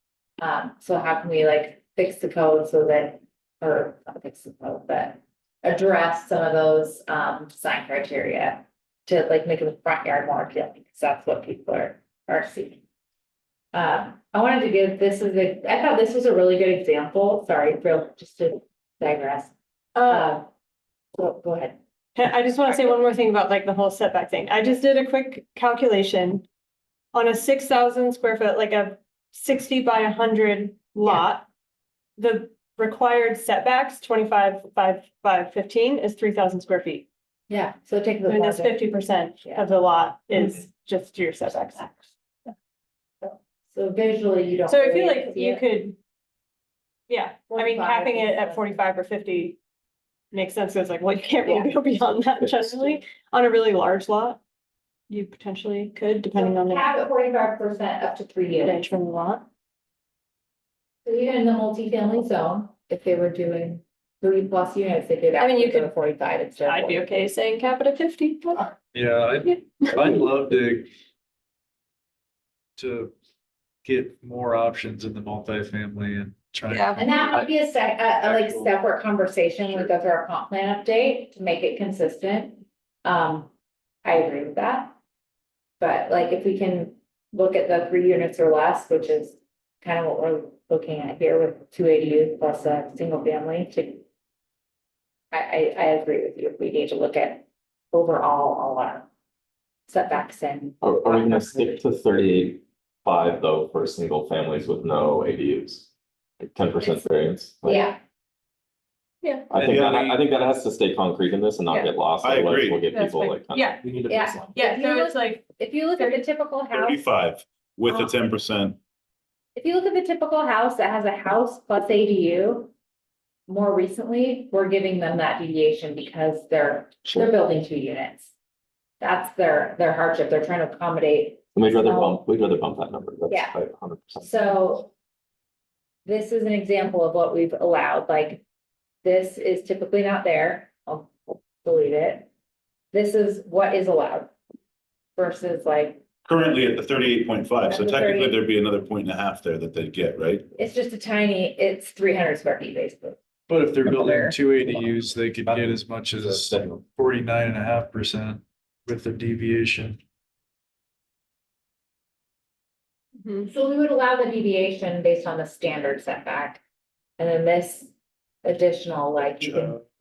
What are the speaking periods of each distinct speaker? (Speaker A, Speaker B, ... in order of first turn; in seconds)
Speaker A: 0.4-12.8, 13.7-19.5, 20.1-20.5, 21.1-21.8, 37.5-39.6, 43.2-45.6, 47.5-48.8, 56.4-58.8, 61.0-67.0, 77.0-83.5, 84.0-84.9, 85.8-94.0, 95.3-99.1, 99.9-101.8, 107.7-108.0, 114.1-117.0, 119.6-122.7, 123.5-128.3, 129.0-132.2, 133.3-133.6, 134.2-134.9, 136.1-138.4, 139.0-142.3, 142.9-144.3, 145.2-146.0, 147.7-148.4, 150.5-153.2, 163.5-166.6, 167.2-167.9, 168.4-169.8
Speaker B: 19.9-20.4, 22.1-26.4, 27.1-31.5, 32.2-37.1, 38.3-42.1, 44.7-46.0, 47.1-49.6, 50.3-54.4, 55.1-56.9, 58.6-59.5, 65.4-65.9, 66.6-68.7, 69.4-70.0, 76.7-77.0, 112.9-113.8, 114.5-116.2, 163.2-163.5
Speaker C: 68.9-70.9, 72.8-73.1, 73.8-77.2, 78.3-78.6, 109.6-110.2, 153.5-160.0
Speaker D: 100.8-105.9, 106.4-107.9, 109.5-114.5, 131.6-134.3
Speaker E: 109.6-109.9, 112.2-112.8, 116.7-118.8, 146.2-150.5